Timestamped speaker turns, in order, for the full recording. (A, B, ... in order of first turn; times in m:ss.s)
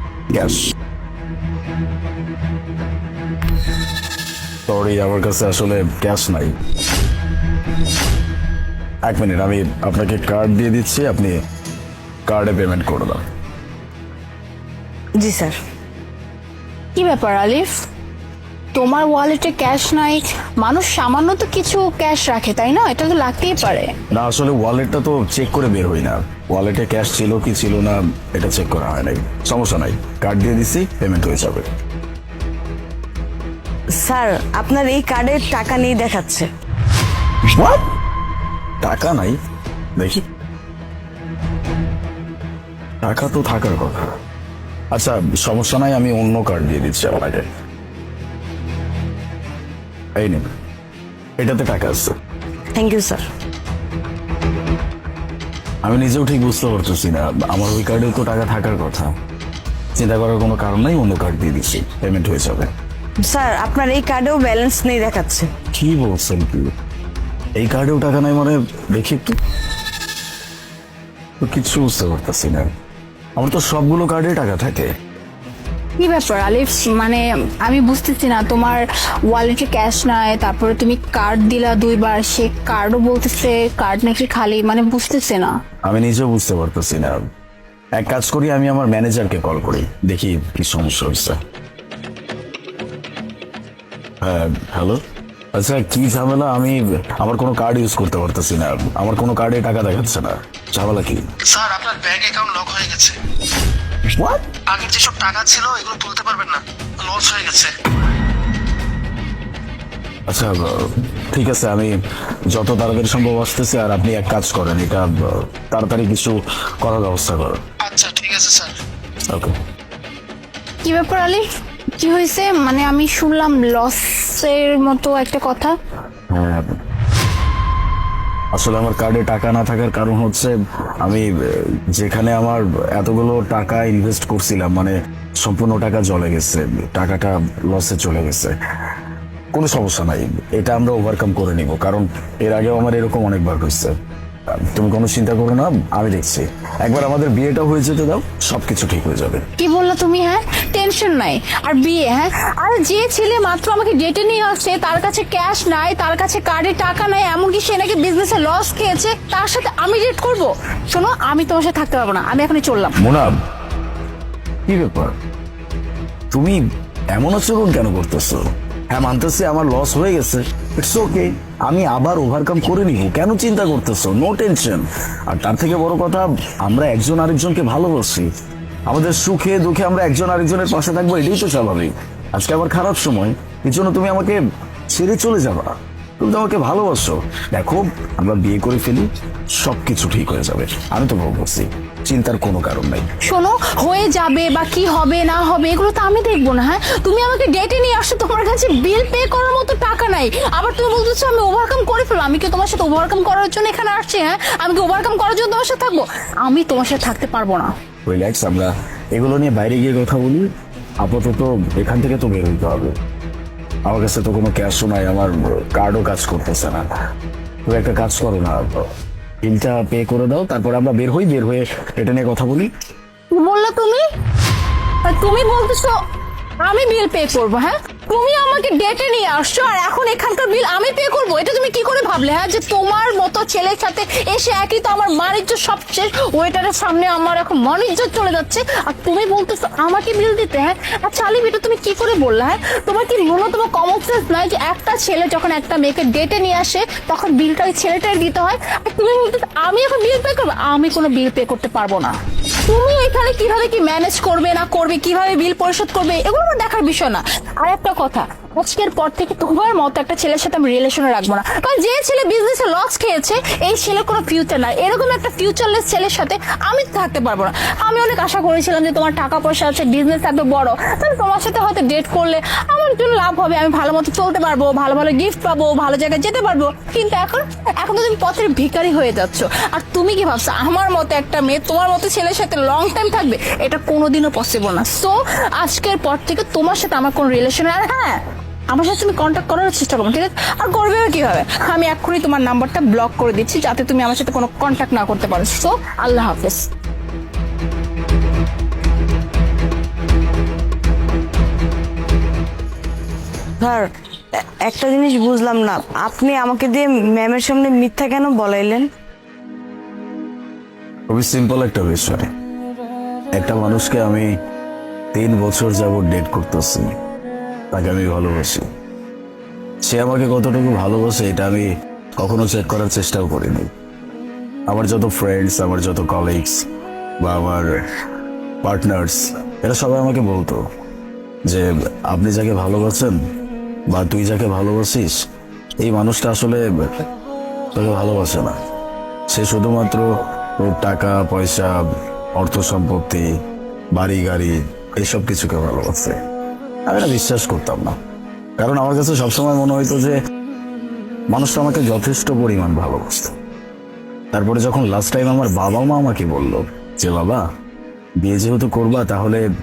0:00.3-0:00.7 A
0:04.7-0:06.6 A
0:09.0-0:11.4 A
0:12.2-0:13.2 A
0:15.2-0:15.6 B
0:17.0-0:17.7 C
0:18.7-0:24.0 C
0:24.1-0:31.7 A
0:34.0-0:36.5 B
0:37.4-0:37.9 A
0:38.8-0:39.4 A
0:40.0-0:40.2 A
0:43.0-0:44.0 A
0:44.9-0:47.5 A
0:50.2-0:50.4 A
0:51.4-0:52.1 A
0:52.8-0:53.2 B
0:55.8-0:59.1 A
1:00.0-1:02.7 A
1:03.3-1:05.5 B
1:05.7-1:06.7 A
1:07.6-1:09.4 A
1:11.4-1:12.7 A
1:13.4-1:14.9 A
1:16.0-1:25.5 C
1:25.8-1:27.3 A
1:28.0-1:31.4 A
1:34.2-1:35.0 A
1:35.5-1:41.2 A
1:41.4-1:43.2 D
1:44.1-1:44.6 A
1:44.6-1:47.8 D
1:50.3-1:52.0 A
1:52.5-1:57.6 A
1:57.8-1:58.8 D
1:59.3-1:59.6 A
2:00.8-2:01.4 C
2:02.0-2:05.7 C
2:06.3-2:06.8 A
2:08.5-2:18.5 A
2:19.5-2:23.9 A
2:24.5-2:29.5 A
2:29.6-2:43.0 C
2:43.0-2:43.4 A
2:44.7-2:45.1 A
2:46.3-2:46.6 A
2:47.1-2:58.3 A
2:58.8-3:04.4 A
3:04.9-3:13.1 A
3:13.2-3:27.7 C
3:28.0-3:30.5 A
3:31.0-3:33.0 A
3:33.8-3:36.9 A
3:37.6-3:38.9 A
3:39.4-3:42.7 A
3:43.3-3:44.1 C
3:45.0-3:46.0 C
3:46.6-4:56.7 C
5:03.6-5:03.9 B
5:04.4-5:08.9 B
5:11.1-5:12.3 A
5:13.3-5:14.3 A
5:15.1-5:16.9 A
5:17.7-5:18.6 A
5:19.8-5:21.7 A
5:22.2-5:23.7 A
5:24.7-5:26.6 A
5:27.2-5:27.7 A
5:28.6-5:30.6 A
5:31.5-5:33.2 A
5:33.9-5:35.2 A
5:35.8-5:37.1 A
5:37.7-5:38.6 A
5:39.3-5:41.8 A
5:42.4-5:43.3 A
5:43.9-5:46.2 A
5:46.8-5:48.0 A
5:48.6-5:50.2 A
5:51.3-5:53.4 A
5:54.3-5:57.4 A
5:58.2-5:59.4 A